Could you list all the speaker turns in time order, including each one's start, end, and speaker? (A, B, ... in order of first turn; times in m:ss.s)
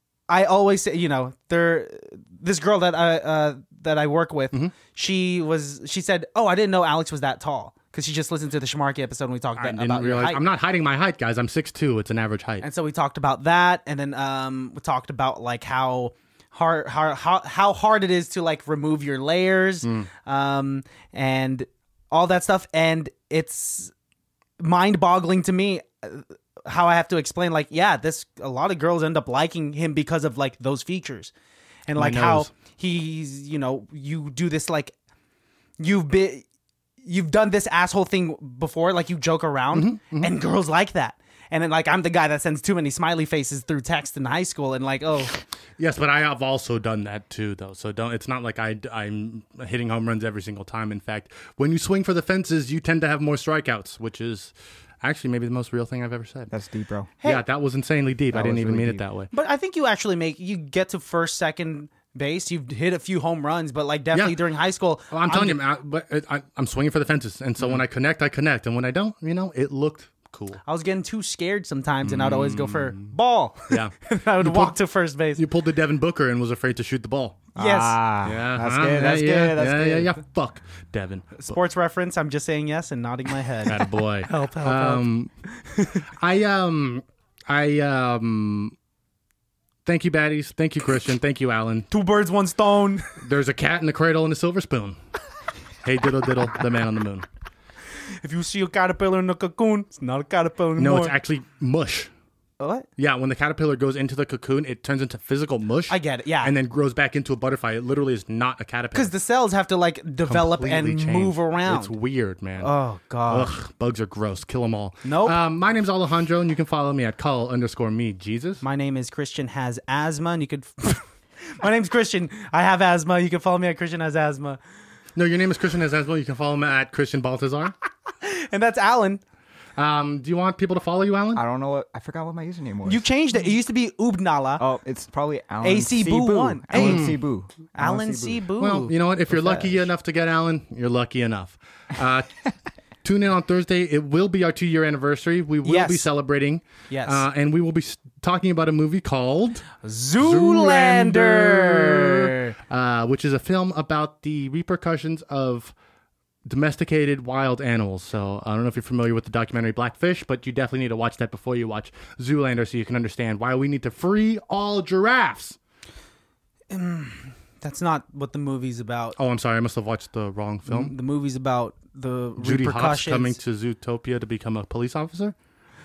0:00.3-0:10.4 A
0:09.6-0:12.6 B
0:12.6-0:23.9 A
0:19.8-0:20.1 B
0:24.6-0:31.3 A
0:31.9-0:34.9 A
0:32.0-0:32.5 B
0:35.8-0:36.4 A
0:37.0-0:45.4 A
0:39.7-0:40.3 B
0:45.8-0:56.5 B
0:56.5-0:57.1 C
0:57.2-0:59.3 B
0:58.3-0:59.0 C
0:59.3-1:05.6 A
1:04.1-1:04.4 B
1:05.1-1:10.6 B
1:10.6-1:15.4 A
1:12.0-1:13.1 B
1:13.7-1:14.8 B
1:15.4-1:17.4 B
1:17.6-1:20.1 C
1:17.6-1:18.0 A
1:18.2-1:21.6 B
1:21.4-1:26.1 A
1:23.6-1:25.3 B
1:26.2-1:28.8 B
1:29.8-1:31.9 B
1:31.9-1:33.2 A
1:33.2-1:35.0 B
1:35.8-1:37.3 B
1:38.2-1:41.1 A
1:40.8-1:42.1 B
1:42.6-1:42.9 A
1:43.0-1:49.1 B
1:45.9-1:46.5 A
1:48.9-1:52.0 A
1:50.3-1:52.7 B
1:52.6-1:53.5 A
1:53.3-1:58.6 B
1:55.0-1:55.4 A
1:58.6-2:04.6 A
2:05.2-2:07.7 B
2:08.2-2:09.2 A
2:09.8-2:11.4 B
2:11.4-2:13.1 C
2:12.8-2:14.6 A
2:14.6-2:18.5 C
2:15.6-2:17.1 A
2:16.7-2:17.2 B
2:17.8-2:19.9 A
2:18.6-2:22.4 B
2:23.0-2:29.7 B
2:25.6-2:26.1 A
2:26.9-2:27.3 A
2:29.8-2:32.5 A
2:30.2-2:35.7 B
2:36.5-2:45.6 B
2:46.7-2:49.2 A
2:49.2-2:50.9 B
2:50.7-2:53.4 A
2:52.4-2:55.4 B